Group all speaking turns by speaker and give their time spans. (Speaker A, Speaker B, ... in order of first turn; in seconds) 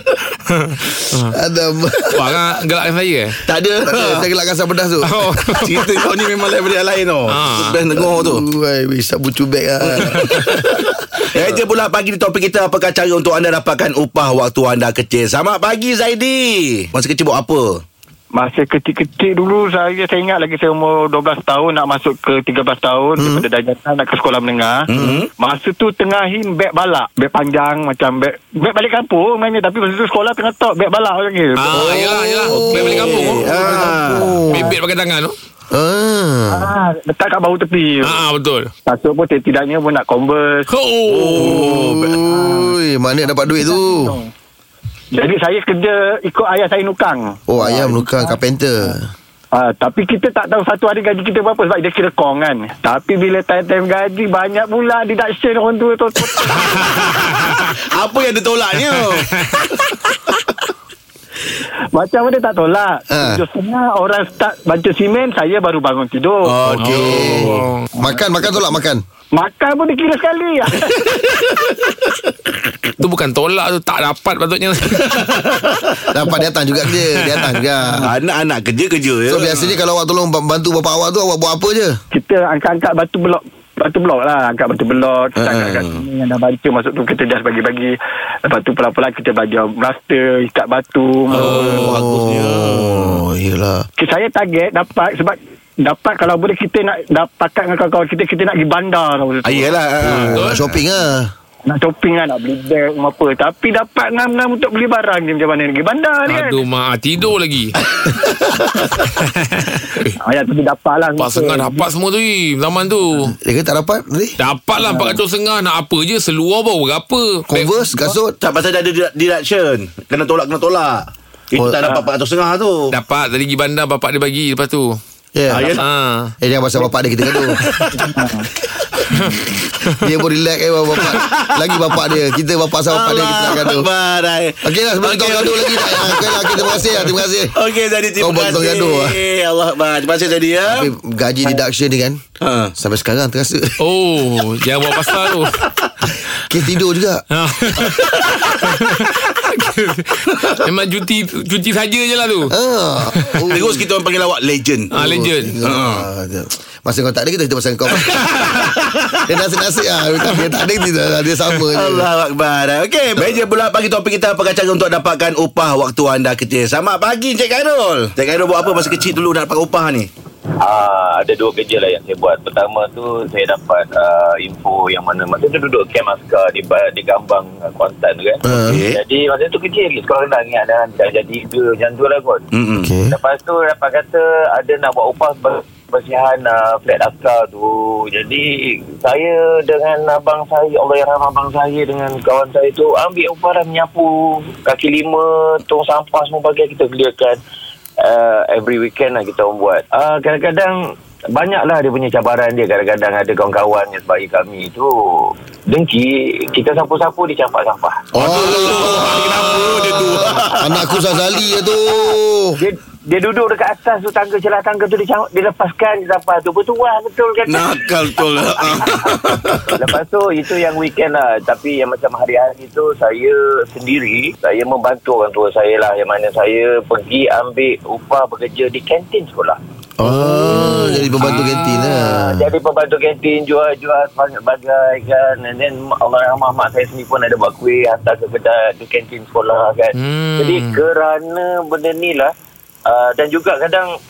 Speaker A: 0.6-1.3, 2.1-3.4, 5.0-5.8, 7.3-7.8, 31.6-33.8, 34.5-35.3, 38.0-38.7, 40.7-41.5, 56.6-57.6, 58.8-59.7, 66.8-67.8, 73.0-75.2, 77.2-77.6, 100.1-100.6, 106.2-107.8, 109.0-110.1, 111.1-113.3, 114.4-118.1, 122.9-125.0, 125.8-126.3, 135.0-135.3, 143.8-145.6, 147.3-148.1, 148.6-152.5, 153.1-153.5, 154.9-155.6, 230.0-231.8, 239.9-240.8
Speaker B: 1.3-2.3, 3.8-5.2, 7.9-10.4, 23.2-23.4, 31.7-34.8, 35.7-36.7, 41.4-44.2, 47.5-49.1, 63.1-63.4, 66.7-69.0, 76.1-78.1, 79.3-82.0, 91.3-93.8, 100.1-101.3, 113.2-114.4, 117.5-118.3, 125.3-125.8, 126.4-127.6, 130.0-133.9, 134.6-137.5, 138.2-139.2, 140.6-142.2, 142.8-143.8, 146.5-147.2, 152.5-153.8, 154.9-158.5, 159.2-162.1, 178.4-178.8, 182.8-183.1, 208.1-212.6, 230.0-232.5
Speaker C: 3.5-4.3, 5.5-8.4, 9.8-17.8, 24.9-25.3, 32.5-34.5, 41.1-42.2, 57.8-59.3, 66.5-67.6, 70.8-71.7, 75.1-75.9, 78.0-79.8, 85.3-86.0, 91.5-93.3, 99.4-100.5, 118.4-122.9, 125.5-125.8, 131.0-131.7, 132.9-136.8, 137.5-140.9, 142.4-142.7, 148.1-148.6, 153.5-154.9, 155.7-156.1, 158.1-159.3, 161.7-170.1, 178.5-179.0, 182.5-182.9, 208.1-210.9, 217.4-219.8
Speaker D: 18.3-32.7, 36.5-38.2, 38.9-40.7, 42.2-42.8, 43.6-44.3, 45.1-48.3, 49.5-57.0, 61.9-66.6, 69.3-71.0, 82.1-91.9, 94.0-100.3, 101.7-106.6, 110.2-111.9, 114.8-115.2, 128.0-128.4
Speaker E: 170.6-182.4, 183.1-197.4, 198.0-200.8, 201.3-208.1, 212.6-219.1, 219.7-229.6, 231.3-242.3, 242.9-243.9